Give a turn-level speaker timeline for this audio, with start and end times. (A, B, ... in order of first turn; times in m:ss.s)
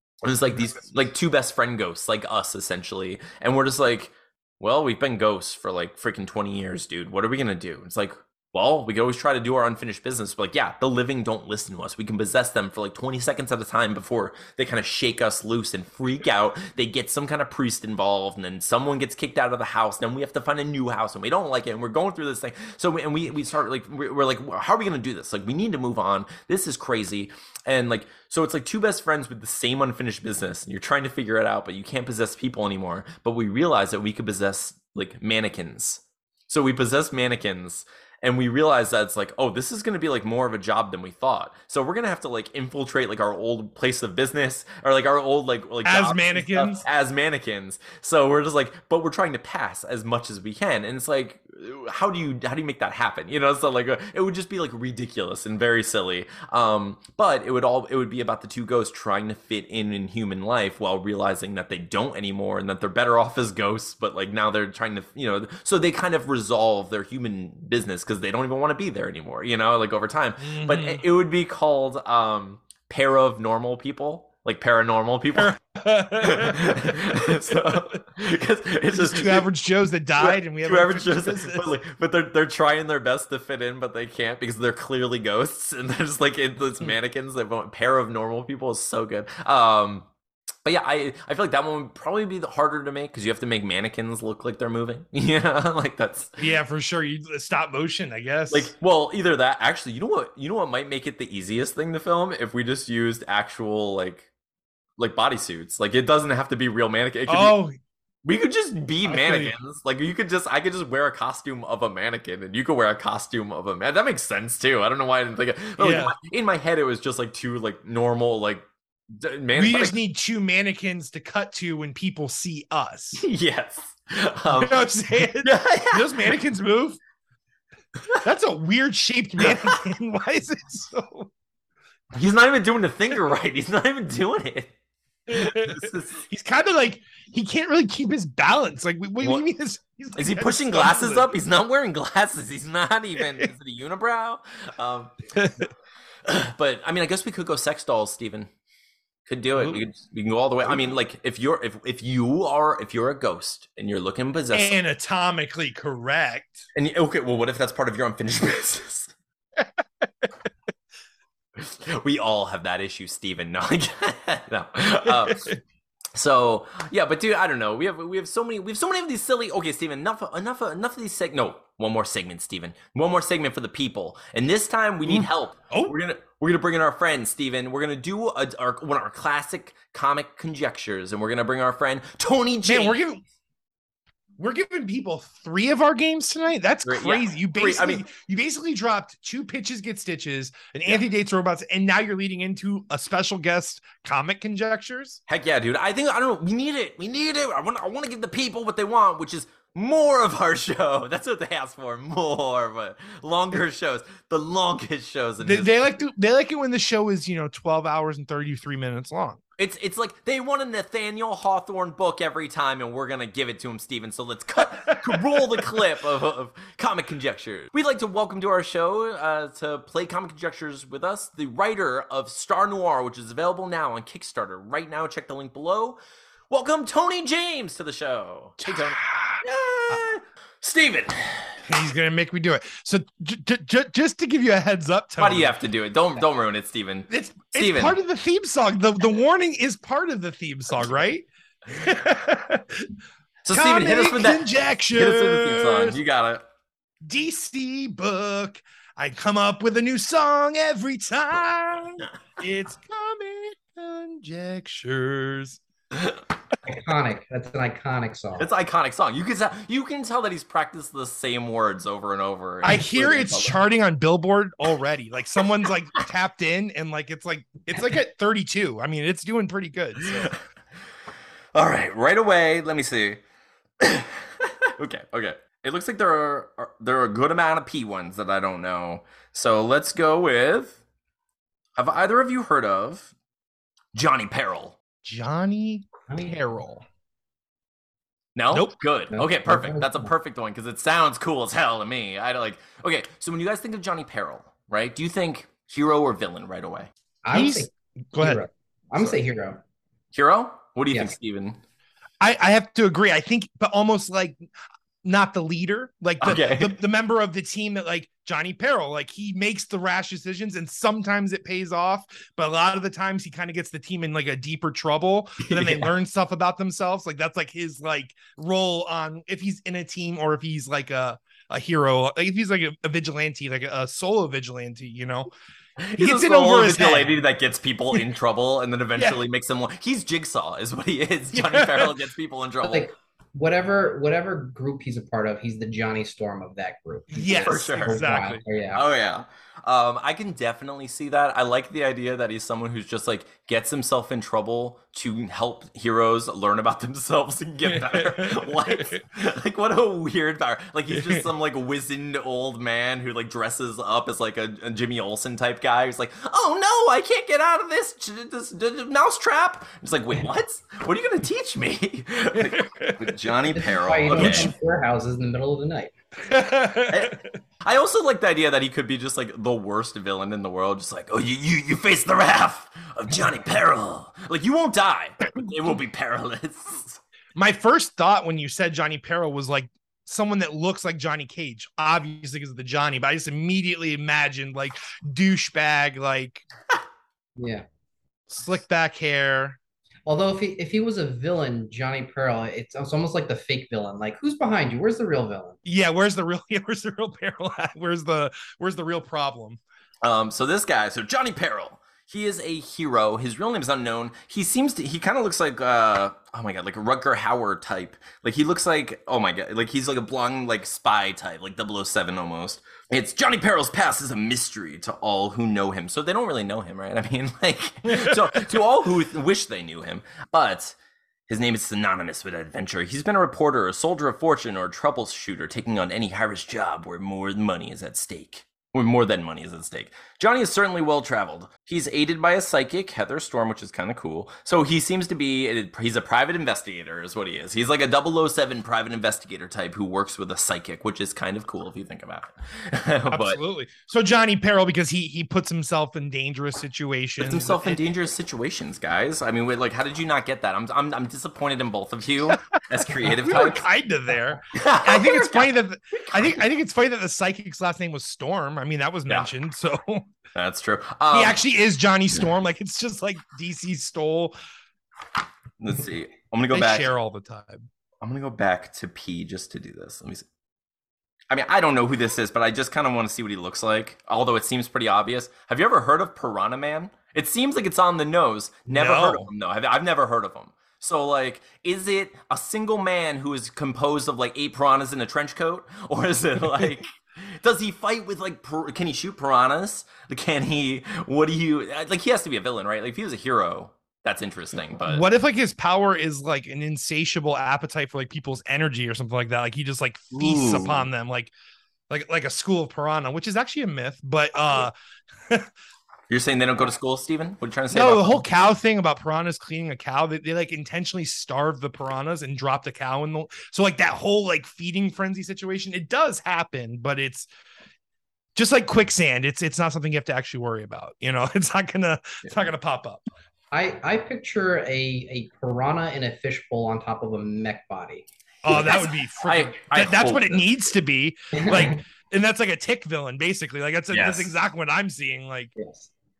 0:00.2-1:15.6 A
0:45.8-0:46.8 B
1:10.4-1:11.0 B
1:15.3-1:16.7 B
1:16.2-1:19.5 A
1:18.9-1:21.7 B
1:20.2-1:30.1 A
1:30.6-1:36.4 A
1:36.4-1:38.7 B
1:38.5-1:44.3 A
1:45.0-1:47.6 A
1:47.3-1:47.8 B
1:48.2-1:59.9 A
1:49.0-1:49.5 B
1:55.8-1:56.1 B
1:59.5-2:03.2 B
2:03.2-2:06.4 A
2:04.5-2:07.0 B
2:08.2-2:11.3 B
2:09.4-2:09.8 A
2:12.1-2:14.7 A
2:15.3-2:21.3 B
2:15.3-2:16.2 A
2:20.2-2:25.3 A
2:25.4-2:25.7 B
2:26.2-2:28.5 A
2:29.2-2:34.8 A
2:29.6-2:29.9 B
2:34.5-2:36.7 B
2:36.7-2:39.1 A
2:41.6-2:45.5 A
2:45.1-2:45.6 B
2:46.1-3:03.0 A
2:55.0-2:55.9 B
3:02.6-3:03.2 B
3:04.4-3:15.2 B
3:06.8-3:08.0 A
3:15.3-3:25.7 A
3:25.4-3:29.4 B
3:29.6-3:46.0 A
3:46.5-3:51.6 A
3:48.6-3:49.4 B
3:51.6-3:55.5 B
3:55.2-3:58.0 A
3:57.1-4:02.9 B
4:03.4-4:06.4 A
4:03.5-4:06.0 B
4:07.0-4:15.6 B
4:16.6-4:18.5 C
4:18.4-4:23.6 A
4:22.6-4:30.3 B
4:30.0-4:30.4 A
4:31.5-4:33.2 A
4:33.8-4:40.8 A
4:41.8-4:43.1 A
4:43.9-4:44.8 A
4:45.0-4:46.8 B
4:48.3-4:56.9 A
4:49.1-4:50.1 C
4:57.2-4:59.6 C
4:57.3-4:58.4 B
5:00.1-5:01.6 A
5:02.2-5:04.4 B
5:05.0-5:25.3 B
5:06.2-5:06.8 A
5:15.4-5:15.9 A
5:25.8-5:32.9 A
5:26.0-5:27.2 B
5:29.0-5:29.2 B
5:31.3-5:32.0 B
5:32.6-5:38.8 C
5:37.1-5:38.4 B
5:37.3-5:38.2 A
5:38.7-6:04.5 A
5:47.7-5:49.0 B
6:02.4-6:03.2 B
6:03.5-6:05.9 C
6:06.2-6:07.3 B
6:06.9-6:17.0 A
6:17.4-6:26.4 B
6:27.4-6:27.6 C
6:28.3-6:29.6 B
6:30.0-6:35.6 C
6:35.6-6:39.6 B
6:40.0-7:00.8 A
7:01.3-7:23.4 A
7:23.1-7:27.8 B
7:27.2-7:33.6 A
7:32.3-7:40.1 B
7:34.5-7:36.4 A
7:40.3-7:41.4 A
7:41.1-7:44.3 B
7:45.6-7:46.9 A
7:46.5-7:47.7 B
7:48.0-7:50.2 A
7:51.3-8:15.0 A
7:58.7-7:59.3 B
8:14.8-8:21.3 B
8:20.1-8:20.9 A
8:21.9-8:24.7 B
8:26.1-8:28.2 A
8:27.7-8:37.3 B
8:38.4-8:43.0 B
8:43.5-8:48.0 C
8:48.4-8:55.5 B
8:48.5-8:50.4 A
8:51.3-8:51.8 C
8:53.9-8:54.3 A
8:55.6-8:55.9 C